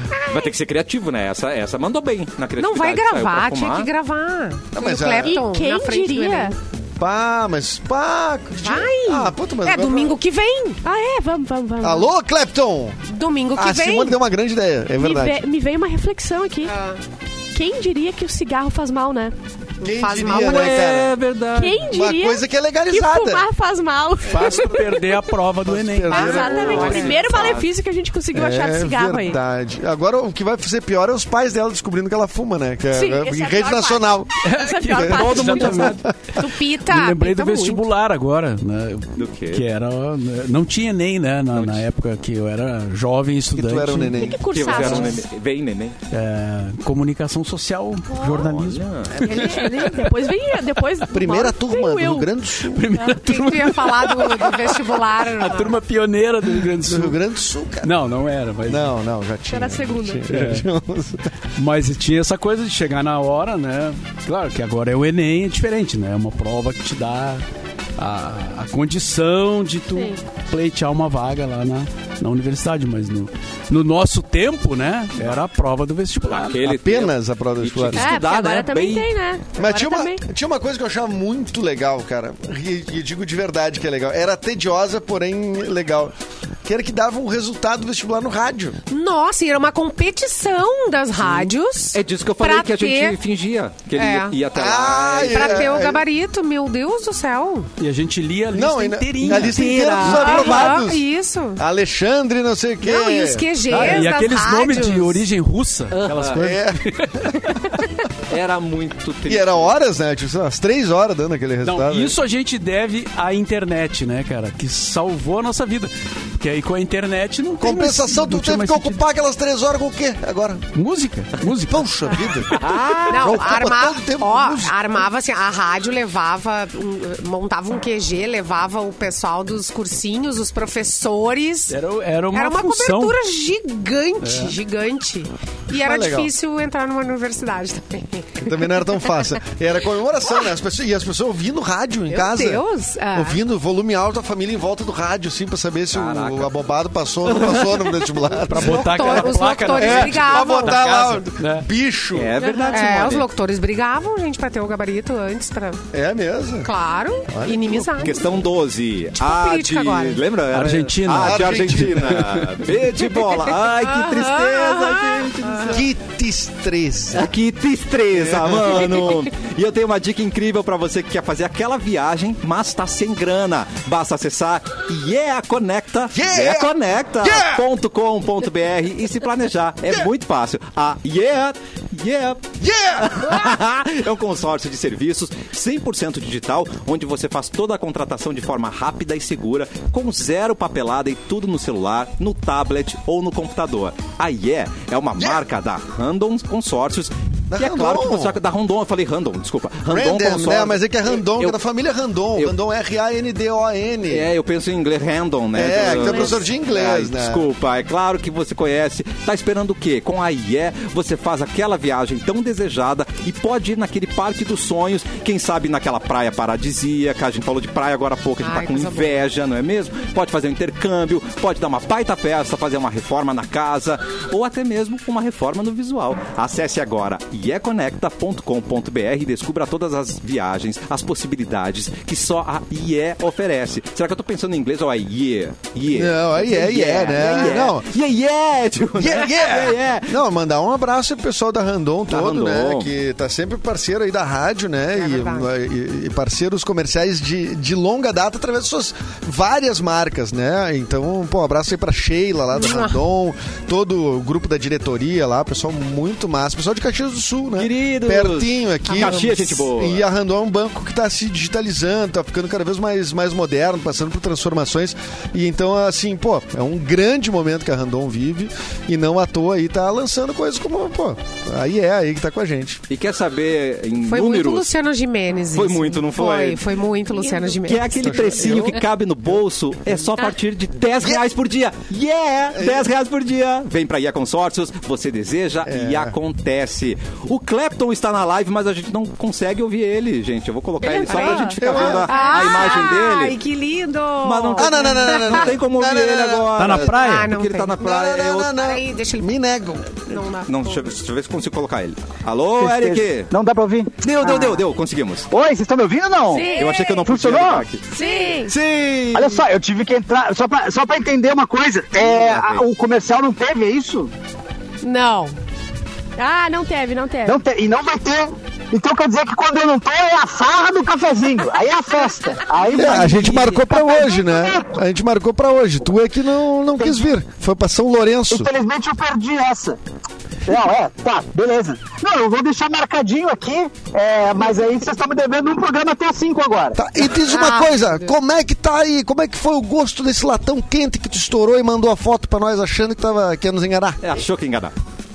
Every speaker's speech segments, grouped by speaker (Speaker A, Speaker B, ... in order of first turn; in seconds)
Speaker A: 0.3-3.9, 20.3-21.9, 26.3-27.7, 35.1-35.9, 39.2-39.6, 41.5-41.8, 44.5-46.0, 48.2-49.2, 76.3-79.1, 91.9-95.8, 105.9-106.4, 108.3-109.7, 122.5-123.5, 145.9-146.5, 147.2-148.0, 152.1-153.3, 157.9-165.8, 167.1-201.6, 204.1-240.2, 242.1-242.9, 257.6-260.0, 272.9-274.7, 275.5-276.6, 277.6-293.4, 294.2-298.5, 300.4-303.3, 304.0-305.3, 306.5-307.8, 308.5-309.2, 312.0-312.6, 344.0-344.7
Speaker B: 2.6-6.5, 8.6-10.8, 13.1-14.2, 16.7-17.0, 19.8-20.9, 26.1-27.2, 36.3-37.8, 44.6-45.1, 53.3-55.8, 88.9-93.2, 94.0-94.3, 95.3-97.7, 100.0-101.6, 102.8-105.2, 123.1-131.8, 132.3-138.6, 142.1-143.4, 148.5-150.9, 152.7-155.8, 156.6-158.4, 159.2-160.2, 163.6-165.8, 218.4-219.2, 244.9-245.5, 252.5-253.0, 258.9-259.6, 274.0-278.6, 290.9-295.5, 296.8-299.3, 300.0-300.9, 306.3-307.0, 307.9-308.5, 314.8-315.3, 337.1-338.1
Speaker C: 4.7-5.4, 7.0-10.2, 11.8-13.0, 13.5-15.4, 19.8-21.1, 21.9-23.5, 25.6-27.3, 28.3-34.3, 34.9-36.4, 43.5-44.5, 51.1-52.9, 56.8-57.9, 58.7-61.3, 76.6-78.1, 79.6-88.8, 94.5-96.0, 98.5-101.0, 101.6-103.5, 106.3-107.2, 109.2-112.1, 117.6-120.6, 121.6-124.8, 135.7-136.3, 138.4-152.3, 155.9-156.7, 157.3-157.9, 161.1-162.3, 165.7-167.3, 168.1-169.2, 176.1-177.6, 182.6-183.5, 197.5-198.4, 199.8-204.3, 205.5-207.4, 235.9-237.9, 238.9-272.8, 278.0-278.8, 282.5-282.9, 285.6-286.1, 291.5-292.1, 294.6-296.8, 297.8-300.0, 322.7-328.5, 336.8-344.0
Speaker D: 5.2-6.5, 10.8-12.1, 15.0-16.7, 17.5-19.3, 21.5-25.2, 26.1-29.4, 32.9-36.0, 44.2-45.2, 49.2-52.3, 59.5-60.2, 69.9-70.2, 77.9-80.2, 152.4-152.9, 206.0-206.3, 290.8-291.6, 292.1-292.5, 306.4-306.8, 307.9-308.5, 316.2-317.4
Speaker E: 24.3-26.4, 34.4-36.1, 36.8-45.1, 46.1-50.1, 52.7-57.1, 57.8-58.9, 60.3-60.6, 61.5-67.4, 68.0-76.6, 97.8-100.8, 103.7-107.8, 111.6-119.0, 120.7-121.9, 131.7-133.2, 134.2-134.6, 148.5-151.7, 160.5-162.6, 296.6-297.3
Speaker F: 302.6-304.5, 305.3-307.7, 309.1-314.1, 317.2-324.8, 328.3-329.8, 330.5-336.8